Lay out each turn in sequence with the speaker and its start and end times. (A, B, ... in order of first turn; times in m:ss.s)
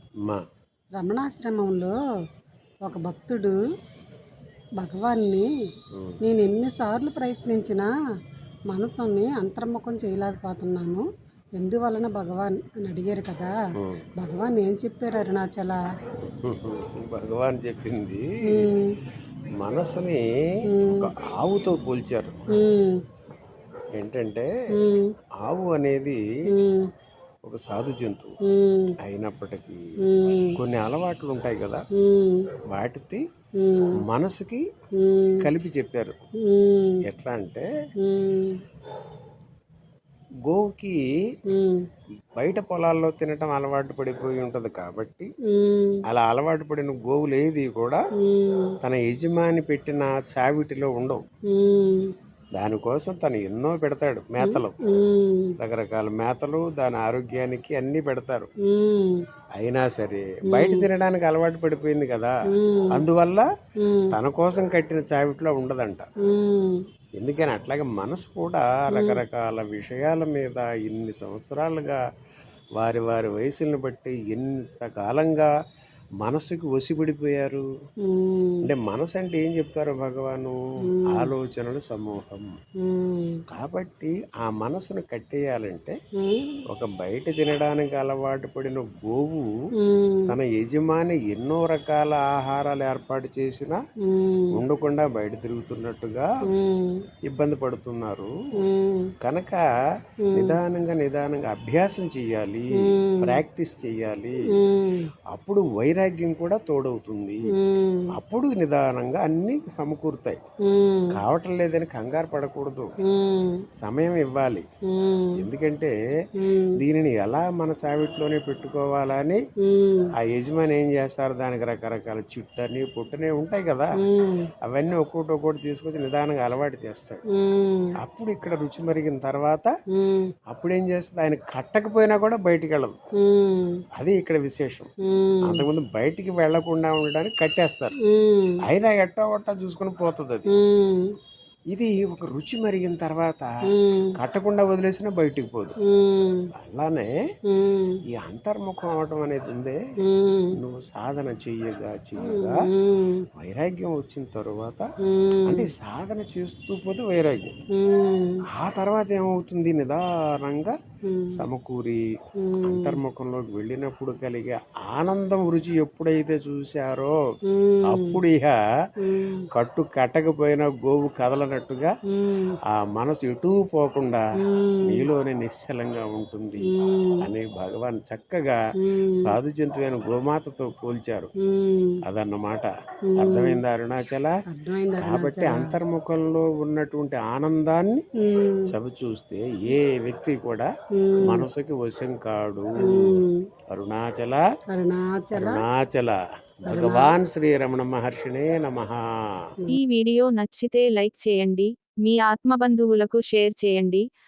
0:01.0-0:02.0 A
0:02.8-0:03.6 A
0:04.8-0:05.5 A
0:05.9-0:06.2 B
0:06.2-0:07.9 A
0:08.7-0:13.5 A
0:13.8-0:14.0 B
0:14.2-0:15.8 A
0:16.2-0:18.7 B
0:18.4-0:18.9 A
0:19.6-0:20.2 B
0:20.7-0:21.1 A
0:20.9-0:22.4 B
0:22.5-0:23.0 A
0:24.0-0:24.5 B
0:24.8-0:25.1 A
0:25.4-0:26.2 B
0:26.5-0:26.9 A
0:27.4-0:28.4 B
0:28.5-0:28.9 A
0:29.0-0:29.8 B
0:30.0-0:30.6 A
0:30.6-0:31.8 B
0:32.0-0:32.4 A
0:32.7-0:33.2 B
0:33.6-0:34.0 A
0:34.0-0:34.6 B
0:35.0-0:35.5 A
0:35.4-0:36.2 B
0:36.5-0:37.0 A
0:37.0-0:37.7 B
0:38.0-0:38.6 A
0:40.4-0:41.0 B
0:41.5-0:41.8 A
0:42.3-0:45.3 B
0:45.5-0:46.0 A
0:46.1-0:48.0 B
0:48.2-0:48.7 A
0:48.8-0:51.2 B
0:51.5-0:52.1 A
0:52.6-0:54.7 B
0:54.4-0:55.5 A
0:55.6-0:58.5 B
0:58.7-0:59.2 A
0:59.6-1:02.4 B
1:00.5-1:00.9 A
1:02.5-1:03.0 A
1:02.9-1:03.5 B
1:03.8-1:04.1 A
1:04.1-1:06.1 B
1:06.2-1:06.8 A
1:07.2-1:12.0 B
1:08.9-1:09.2 A
1:12.8-1:15.5 B
1:16.2-1:17.6 B
1:18.0-1:18.7 A
1:18.6-1:22.5 B
1:20.8-1:21.3 A
1:22.8-1:23.4 A
1:23.5-1:26.0 B
1:26.2-1:26.6 A
1:26.7-1:29.5 B
1:29.8-1:30.3 A
1:30.3-1:33.8 B
1:34.0-1:34.6 A
1:34.5-1:36.3 B
1:36.5-1:37.0 A
1:37.2-1:38.3 B
1:38.6-1:39.1 A
1:39.2-1:39.6 B
1:40.2-1:40.6 A
1:40.3-1:44.4 B
1:42.8-1:43.4 A
1:44.5-1:45.1 A
1:45.3-1:47.4 B
1:47.5-1:48.1 A
1:48.1-1:50.4 B
1:50.7-1:51.2 A
1:51.1-1:52.9 B
1:53.0-1:53.6 A
1:53.8-1:54.6 B
1:54.9-1:55.4 A
1:55.4-1:55.9 B
1:56.4-1:56.8 A
1:56.8-1:59.4 B
1:59.6-2:00.1 A
2:00.1-2:03.9 B
2:04.0-2:04.5 A
2:04.6-2:07.2 B
2:07.3-2:07.9 A
2:08.0-2:09.7 B
2:09.9-2:10.3 A
2:10.5-2:13.0 B
2:13.2-2:13.8 A
2:13.9-2:14.9 B
2:15.0-2:15.6 A
2:15.4-2:17.9 B
2:18.0-2:18.6 A
2:18.6-2:20.5 B
2:20.5-2:21.1 A
2:21.7-2:23.5 B
2:23.7-2:24.2 A
2:24.1-2:25.7 B
2:25.9-2:26.5 A
2:26.5-2:27.1 B
2:27.5-2:28.0 A
2:28.1-2:29.8 B
2:30.0-2:30.6 A
2:30.5-2:32.6 B
2:32.2-2:33.2 A
2:33.3-2:34.8 B
2:35.0-2:35.7 A
2:35.4-2:37.6 B
2:37.8-2:38.4 A
2:38.5-2:40.8 B
2:41.0-2:41.4 A
2:41.3-2:42.0 B
2:42.4-2:43.0 A
2:42.6-2:47.2 B
2:47.5-2:48.2 A
2:47.8-2:48.6 B
2:49.0-2:49.4 A
2:49.5-2:51.9 B
2:52.1-2:52.6 A
2:52.7-2:54.2 B
2:54.4-2:55.1 A
2:54.8-2:56.7 B
2:56.6-2:57.2 A
2:57.2-2:58.6 B
2:58.8-2:59.3 A
2:59.2-3:01.3 B
3:01.4-3:02.0 A
3:02.0-3:04.4 B
3:03.1-3:03.6 A
3:04.4-3:05.8 A
3:05.0-3:08.0 B
3:08.2-3:08.7 A
3:08.6-3:10.7 B
3:11.0-3:11.4 A
3:11.2-3:13.2 B
3:12.8-3:13.4 A
3:13.7-3:14.4 B
3:14.7-3:15.6 A
3:15.3-3:19.0 B
3:16.6-3:17.1 A
3:19.7-3:24.0 C